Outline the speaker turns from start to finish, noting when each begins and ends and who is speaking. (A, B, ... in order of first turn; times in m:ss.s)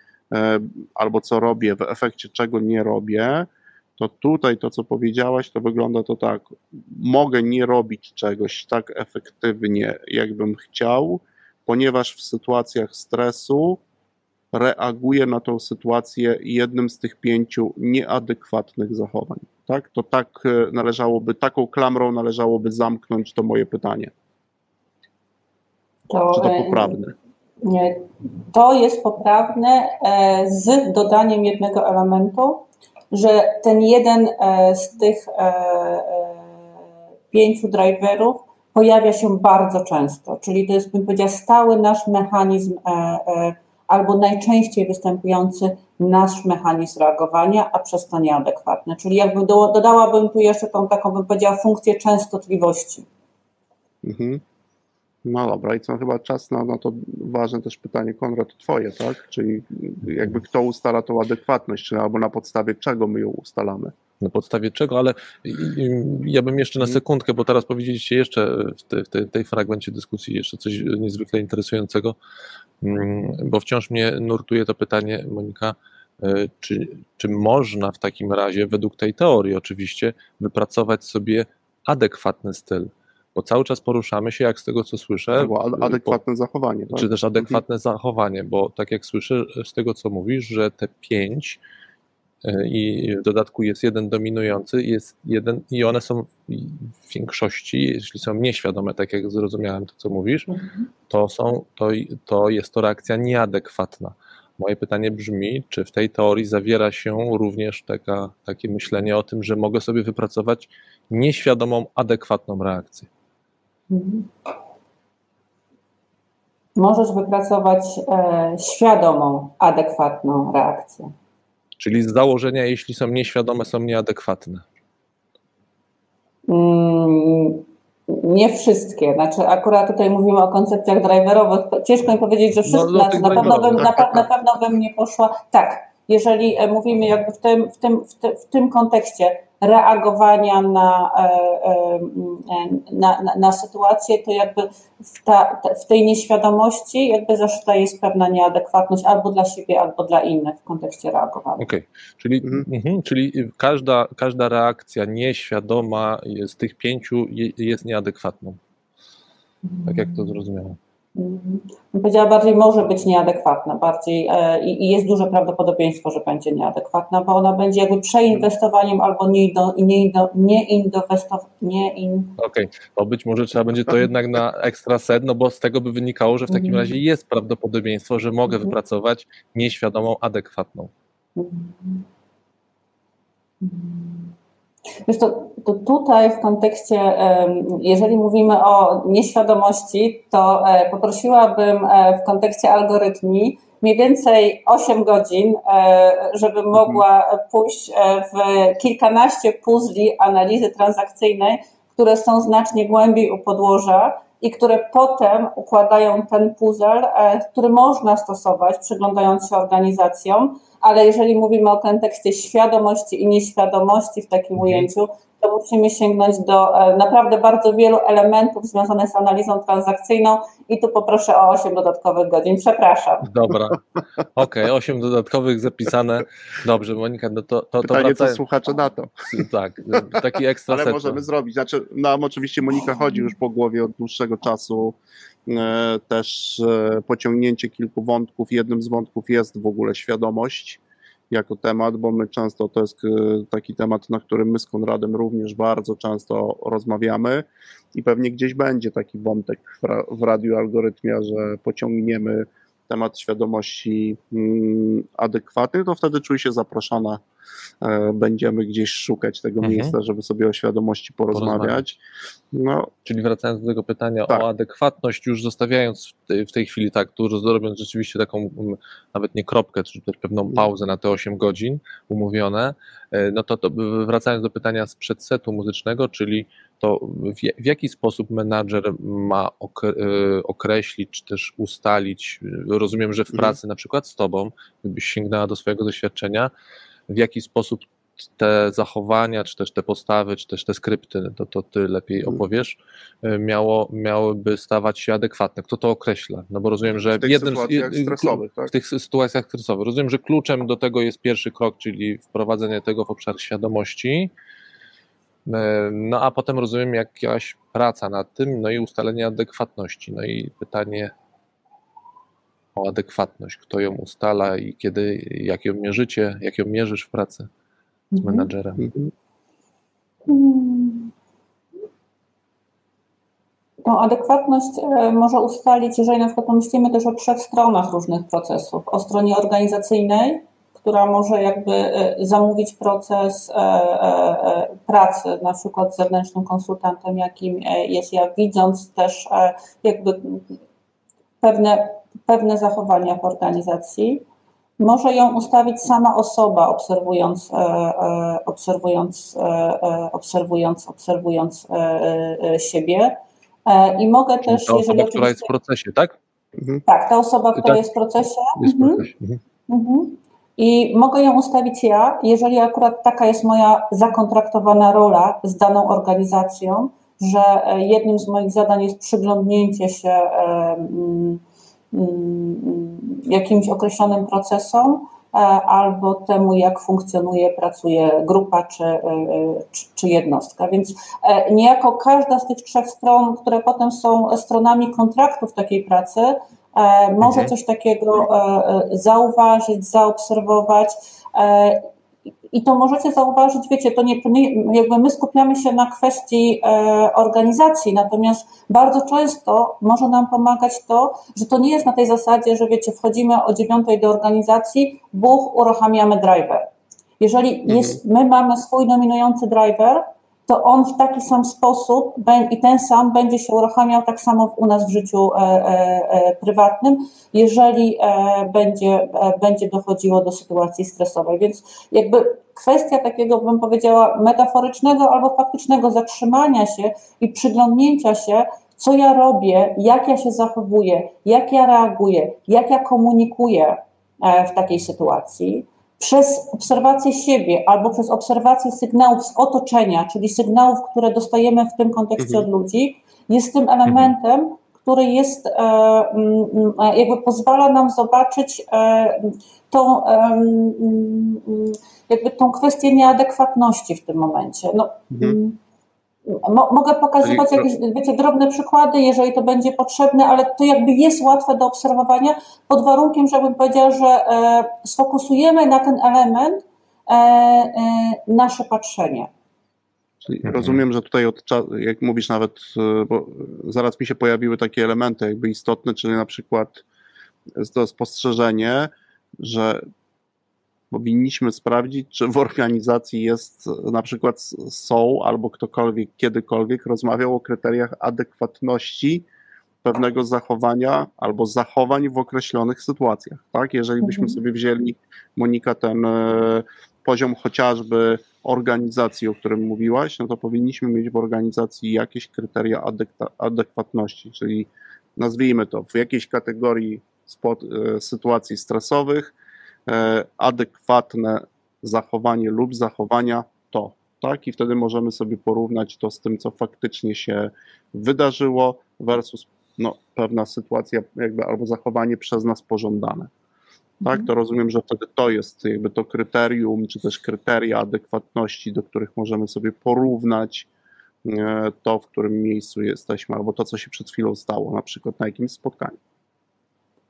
0:00.3-0:13.8 A
0:14.5-0:24.1 A
0:26.1-0:27.0 B
0:26.3-0:27.2 A
0:27.6-0:36.5 B
0:37.3-0:53.1 B
0:54.0-0:54.4 A
0:55.2-1:03.9 A
1:04.2-1:12.2 C
1:12.8-1:26.2 C
1:25.4-1:27.6 A
1:26.9-1:31.6 C
1:32.4-1:40.5 C
1:40.5-1:40.9 B
1:41.1-1:53.1 C
1:53.9-1:54.3 B
1:56.8-2:01.1 B
2:01.8-2:04.6 C
2:06.5-2:31.7 B
2:12.7-2:14.3 C
2:31.6-2:38.6 C
2:39.6-2:40.3 B
2:39.8-2:40.8 C
2:41.2-2:52.4 B
2:52.4-3:00.9 C
2:56.5-2:57.0 B
3:01.4-3:02.1 B
3:03.6-3:04.3 B
3:05.1-3:43.3 B
3:34.6-3:34.9 C
3:43.2-3:43.8 C
3:44.3-3:48.4 C
3:47.8-4:17.2 A
3:49.3-3:51.2 C
4:17.8-4:22.0 A
4:19.6-4:20.0 C
4:21.3-4:21.9 C
4:22.5-4:22.9 A
4:23.0-4:46.5 C
4:47.1-5:04.3 C
4:57.2-4:58.7 A
5:05.5-5:11.1 C
5:12.8-5:17.5 C
5:18.1-5:18.5 B
5:18.2-5:18.9 C
5:18.8-5:19.1 A
5:20.3-5:21.1 B
5:23.8-5:40.6 B
5:41.4-5:44.2 B
5:44.8-5:55.5 B
5:54.4-5:56.2 C
5:56.6-5:56.8 A
5:56.9-5:59.0 B
5:57.6-5:57.9 C
5:58.6-5:59.4 C
5:59.7-6:11.4 B
6:11.9-6:31.9 B
6:27.2-6:27.5 C
6:32.5-6:46.6 B
6:47.2-7:35.6 B
6:47.7-6:48.0 A
7:22.2-7:22.5 A
7:35.1-7:35.4 A
7:36.3-7:49.3 B
7:37.2-7:37.7 C
7:50.2-7:56.8 A
7:50.5-7:50.8 C
7:57.6-7:59.8 A
8:00.9-8:09.3 A
8:09.8-8:29.4 A
8:14.0-8:14.4 B
8:29.9-8:43.3 A
8:44.0-8:44.3 B
8:44.0-8:50.7 A
8:51.2-8:56.0 A